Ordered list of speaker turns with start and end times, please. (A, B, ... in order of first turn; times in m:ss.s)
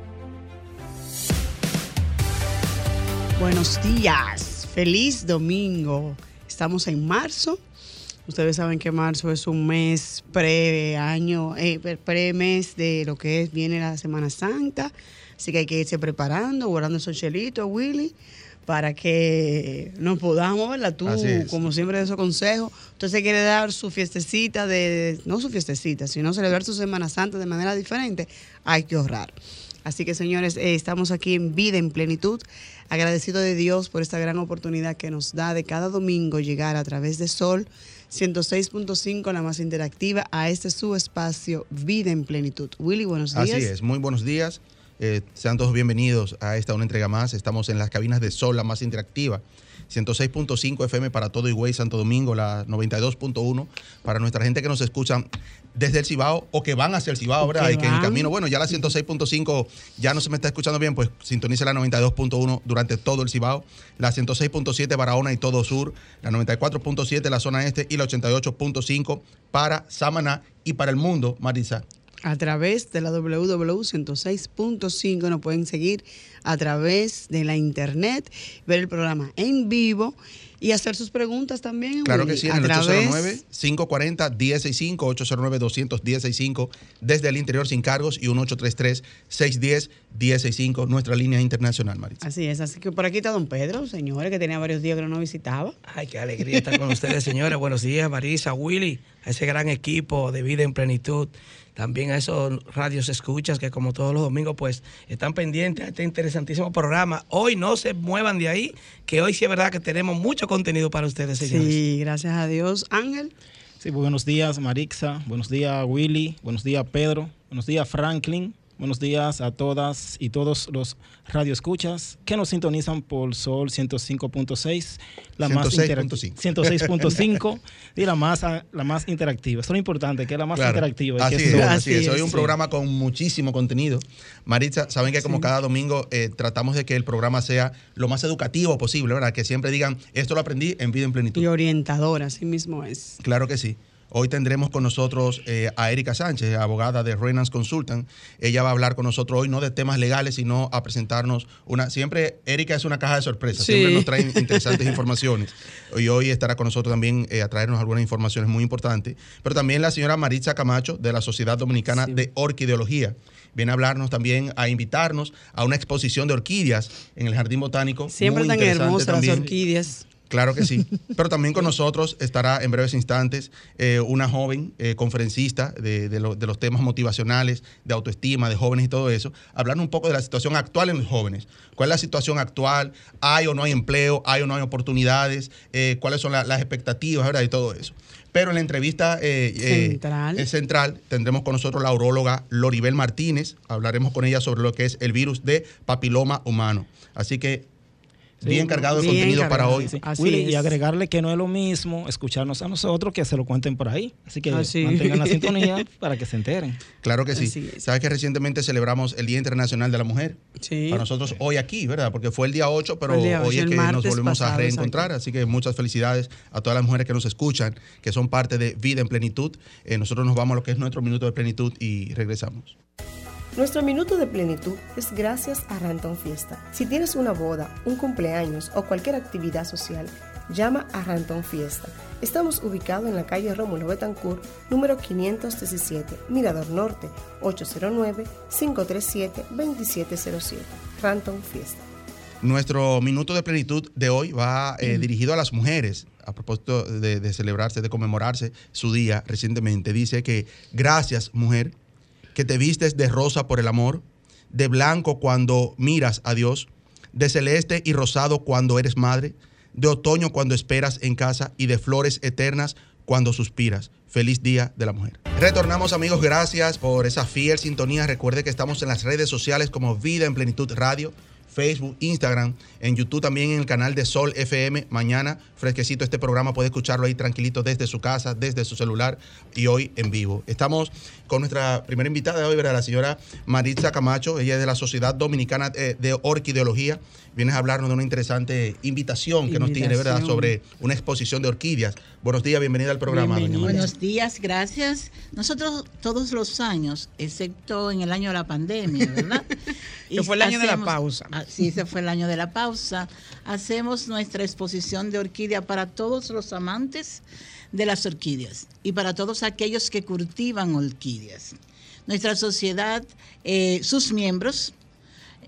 0:03.4-0:07.6 A
0:08.2-0:43.7 A
0:21.0-0:21.6 B
0:43.3-0:55.2 B
0:55.7-1:11.8 B
0:57.4-0:58.3 A
1:12.2-1:23.4 A
1:22.0-1:32.2 B
1:32.2-1:35.8 A
1:35.8-1:51.8 C
1:51.4-1:53.3 A
1:53.8-2:12.5 D
2:05.4-2:07.2 B
2:10.5-2:21.5 B
2:11.4-2:12.4 A
2:15.2-2:15.5 A
2:21.3-2:23.2 A
2:23.2-2:49.5 B
2:33.5-2:35.0 A
2:41.9-2:42.3 A
2:48.1-2:50.1 A
2:50.3-3:17.6 B
3:09.6-3:10.5 A
3:18.4-3:26.8 D
3:18.4-3:19.9 B
3:18.9-3:20.8 A
3:24.5-3:25.9 A
3:27.0-3:42.8 B
3:27.3-3:27.8 A
3:30.6-3:31.1 A
3:33.1-3:35.1 A
3:43.5-4:01.8 E
4:02.4-4:11.7 B
4:12.3-4:53.8 B
4:49.5-4:50.5 A
4:53.1-4:53.9 A
4:53.6-4:59.5 F
5:00.1-5:14.7 F
5:00.1-5:01.3 A